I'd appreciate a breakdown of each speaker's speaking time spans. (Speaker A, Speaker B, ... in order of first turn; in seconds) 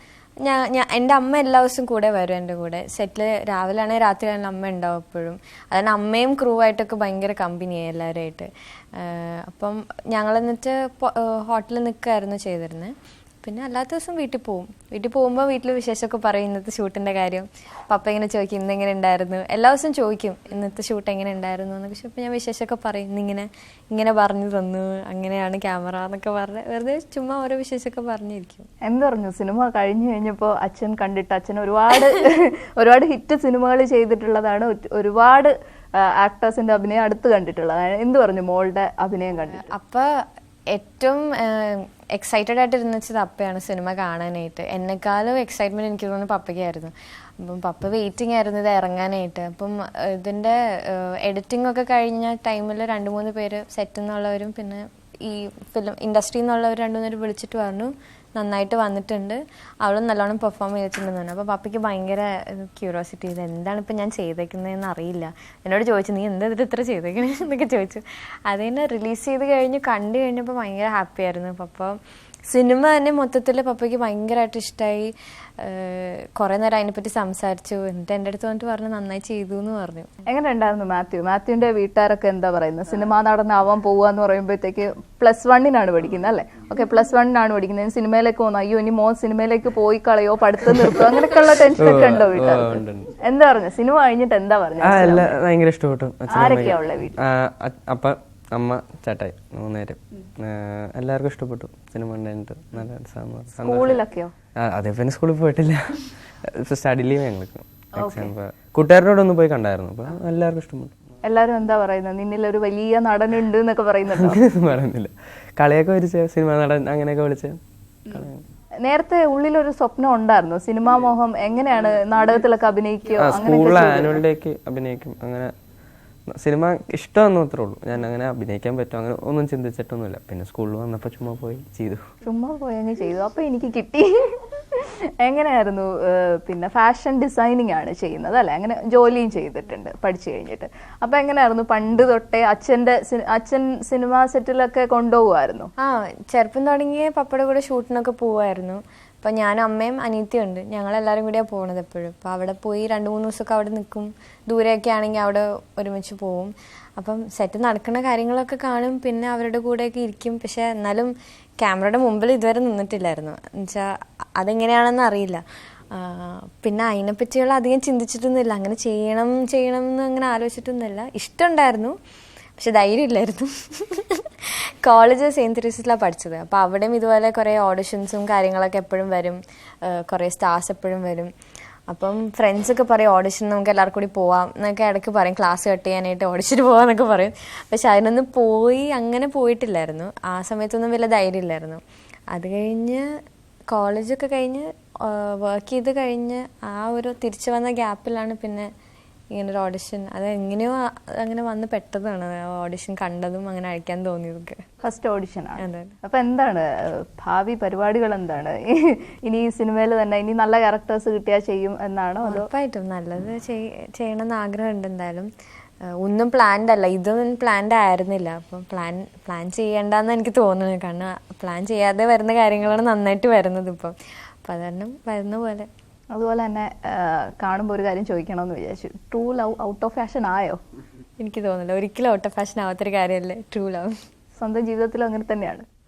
Speaker A: 0.4-28.7, 39.6-72.0, 72.5-80.2, 145.8-172.0, 172.6-181.3, 181.9-193.1, 193.7-198.7, 199.3-204.7, 205.6-205.9, 212.2-215.3, 215.8-225.7, 231.2-234.0
Speaker B: 28.8-39.6, 80.2-95.3, 96.3-97.2, 103.6-104.3, 108.0-108.3, 111.2-114.4, 118.8-124.2, 132.2-145.7, 204.8-212.5, 226.1-230.6, 234.4-235.7
Speaker C: 91.8-93.1, 94.8-104.0, 104.6-111.0, 114.1-117.6, 118.1-118.4, 123.2-125.5, 126.3-132.1